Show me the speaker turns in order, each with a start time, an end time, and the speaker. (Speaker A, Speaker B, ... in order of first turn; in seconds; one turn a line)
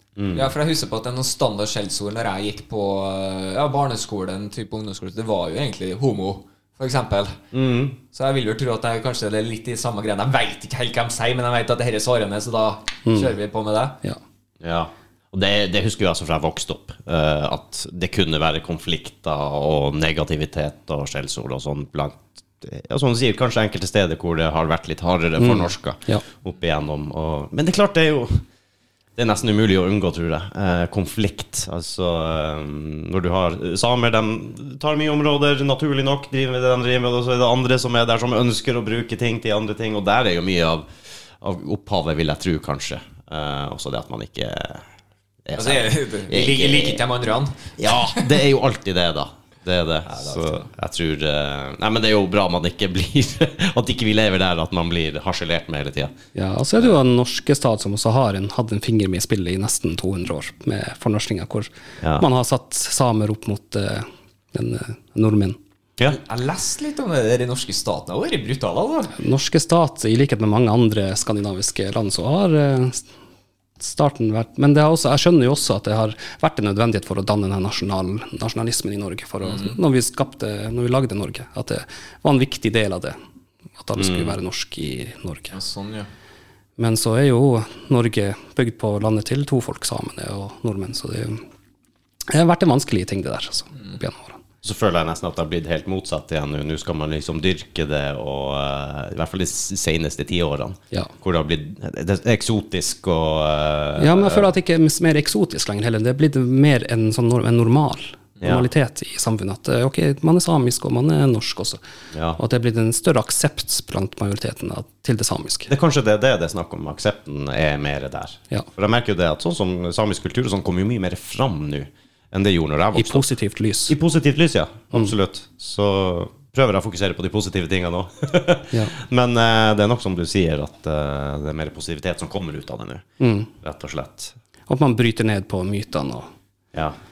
Speaker A: 0.2-0.5
Speaker B: 0.3-7.4
Speaker A: 7.5-8.0
Speaker B: 8.1-14.0
Speaker C: 13.1-13.3
Speaker A: 14.6-28.4
Speaker C: 25.4-26.2
Speaker A: 29.1-40.9
Speaker A: 41.4-44.9
Speaker A: 45.5-47.0
Speaker B: 45.6-48.3
Speaker A: 47.8-56.1
Speaker B: 50.1-50.6
Speaker C: 56.3-65.6
Speaker B: 66.1-69.1
Speaker C: 69.2-73.0
Speaker C: 73.8-83.2
Speaker B: 79.4-79.8
Speaker C: 83.8-85.5
Speaker A: 84.0-84.3
Speaker B: 85.5-86.1
Speaker C: 86.8-91.4
Speaker C: 92.3-94.4
Speaker A: 94.6-104.5
Speaker C: 104.0-111.8
Speaker A: 108.4-108.7
Speaker A: 112.1-112.4
Speaker C: 112.4-115.7
Speaker A: 115.7-123.3
Speaker C: 122.9-124.0
Speaker A: 123.9-133.0
Speaker C: 133.2-133.5
Speaker A: 133.6-134.3
Speaker C: 134.7-136.3